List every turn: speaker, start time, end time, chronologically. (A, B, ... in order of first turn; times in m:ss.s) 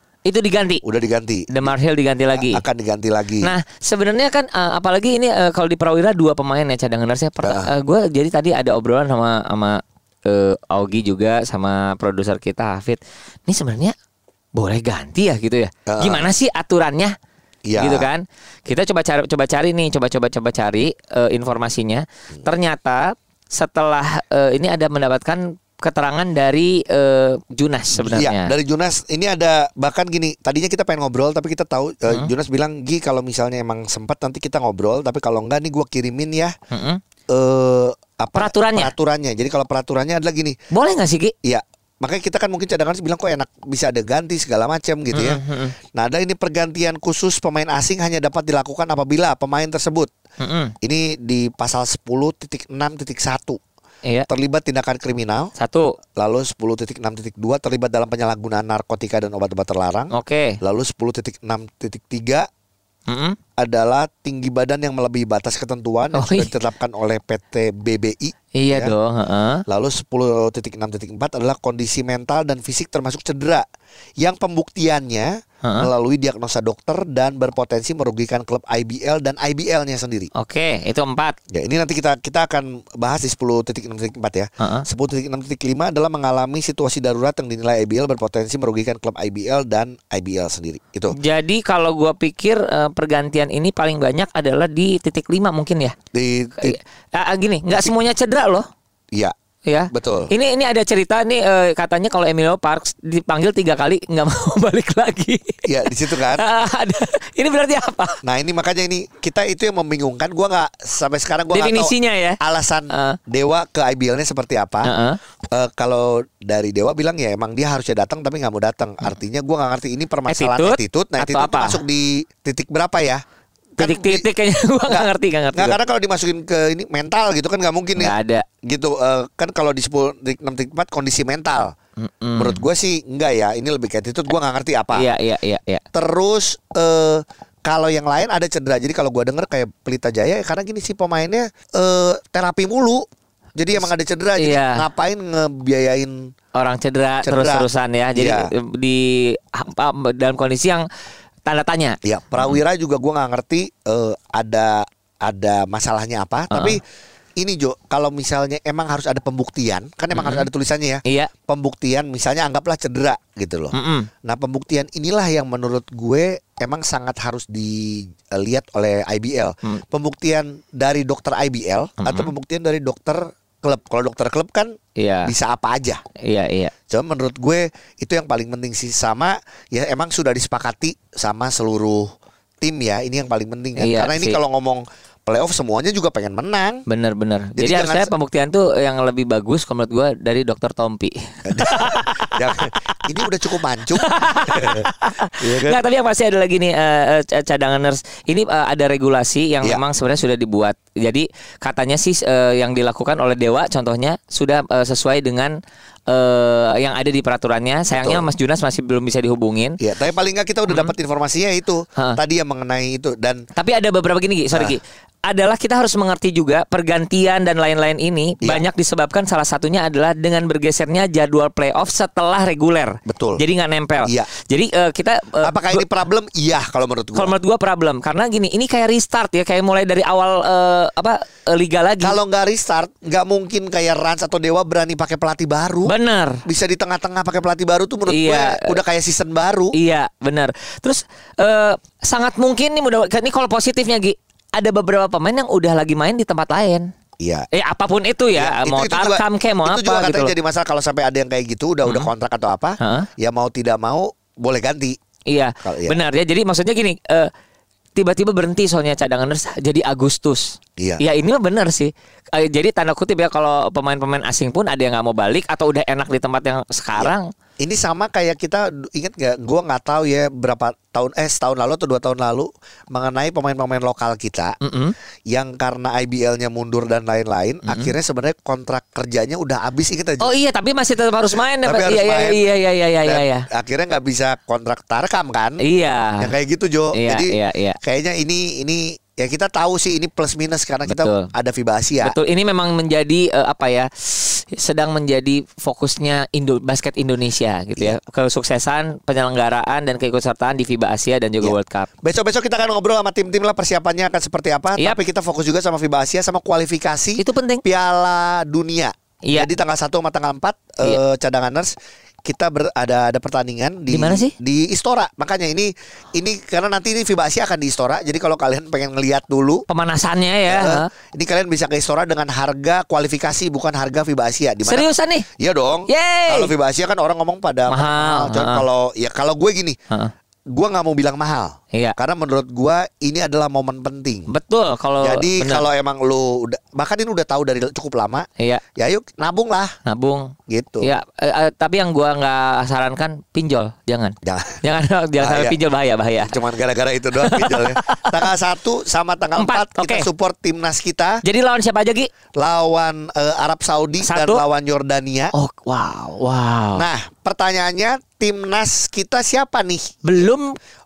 0:00.2-0:00.8 A
0:00.8-0:01.7 B
0:01.5-0:02.6 A
0:02.3-0:03.5 B
0:03.4-0:13.9 A
0:07.4-0:07.7 B
0:14.5-0:17.1 A
0:15.9-0:16.3 B
0:17.6-0:18.1 B
0:17.8-0:28.5 A
0:27.9-0:36.5 B
0:36.7-0:37.0 A
0:37.3-0:40.6 B
0:38.3-0:38.9 A
0:40.7-0:41.3 A
0:41.4-0:45.4 B
0:45.1-0:45.7 A
0:45.9-0:50.1 B
0:50.4-0:50.7 A
0:50.8-0:53.6 B
0:54.3-0:55.5 B
0:55.6-0:56.0 A
0:56.2-1:02.4 B
1:00.1-1:00.6 A
1:03.1-1:03.4 A
1:03.6-1:08.9 B
1:06.1-1:06.5 A
1:08.6-1:09.6 A
1:09.7-1:13.6 B
1:14.2-1:20.3 B
1:15.6-1:15.9 A
1:20.4-1:21.4 A
1:21.5-1:31.2 B
1:24.6-1:24.8 A
1:31.1-1:36.0 A
1:36.1-1:36.8 B
1:36.6-1:38.7 A
1:39.6-1:48.2 A
1:39.9-1:40.3 B
1:45.6-1:46.4 B
1:48.2-1:54.9 B
1:51.5-1:52.4 A
1:52.9-1:53.2 A
1:54.8-1:55.2 A
1:55.5-2:03.2 B
2:00.3-2:01.8 A
2:03.8-2:04.3 B
2:03.8-2:05.8 A
2:04.9-2:11.7 B
2:08.0-2:08.4 A
2:12.0-2:12.6 A
2:12.3-2:15.1 B
2:14.9-2:15.8 A
2:15.9-2:23.0 B
2:23.6-2:26.3 B
2:23.7-2:24.8 A
2:26.5-2:30.8 A
2:27.2-2:28.5 B
2:31.4-2:32.6 A
2:32.0-2:36.8 B
2:36.5-2:36.8 A
2:37.4-2:43.7 B
2:40.1-2:40.5 A
2:43.7-2:44.1 A
2:44.2-2:54.7 B
2:52.0-2:52.3 A
2:55.0-2:55.3 A
2:55.2-2:56.0 B
2:56.2-2:56.7 A
2:56.9-3:02.0 B
3:02.6-3:06.8 B
3:03.8-3:04.4 A
3:06.9-3:13.0 A
3:07.6-3:08.1 B
3:11.4-3:14.9 B
3:13.9-3:25.5 A
3:15.4-3:15.8 B
3:26.1-3:29.8 A
3:27.9-3:28.3 B
3:29.8-3:33.4 B
3:30.7-3:30.9 A
3:33.6-3:45.8 A
3:34.5-3:34.8 B
3:43.0-3:43.4 B
3:45.4-3:47.3 B
3:47.1-3:52.2 A
3:52.0-3:55.9 B
3:55.8-3:56.4 A
3:56.4-3:59.7 B
3:58.1-3:58.8 A
3:59.7-4:06.9 A
4:07.2-4:07.5 B
4:07.5-4:10.3 A
4:08.4-4:15.0 B
4:12.8-4:13.1 A
4:15.3-4:17.3 A
4:15.6-4:16.0 B
4:18.0-4:27.3 A
4:27.0-4:34.6 B
4:34.6-4:34.9 A
4:35.3-4:40.3 B
4:37.6-4:37.9 A
4:40.2-4:43.4 A
4:41.6-4:42.4 B
4:43.0-4:45.6 B
4:45.6-4:46.3 A
4:46.2-4:52.2 B
4:46.9-4:47.8 A
4:50.8-4:51.3 A
4:52.0-5:01.9 A
5:01.4-5:11.7 B
5:07.2-5:07.6 A
5:09.2-5:09.5 A
5:12.2-5:19.6 B
5:13.9-5:14.3 A
5:19.7-5:20.9 A
5:20.5-5:24.9 B
5:24.6-5:25.2 A
5:25.4-5:29.8 B
5:25.9-5:26.5 A
5:27.7-5:28.6 A
5:30.5-5:34.3 B
5:34.3-5:35.6 A
5:35.0-5:39.7 B
5:39.9-5:46.3 A
5:40.5-5:40.9 B
5:44.2-5:44.6 B
5:45.2-5:45.6 B
5:46.2-5:51.2 B
5:47.2-5:48.3 A
5:49.3-5:50.1 A
5:51.2-5:52.1 A
5:52.4-5:55.3 B
5:54.0-5:54.4 A
5:55.3-5:56.9 A
5:56.8-6:00.0 B
6:00.0-6:00.6 A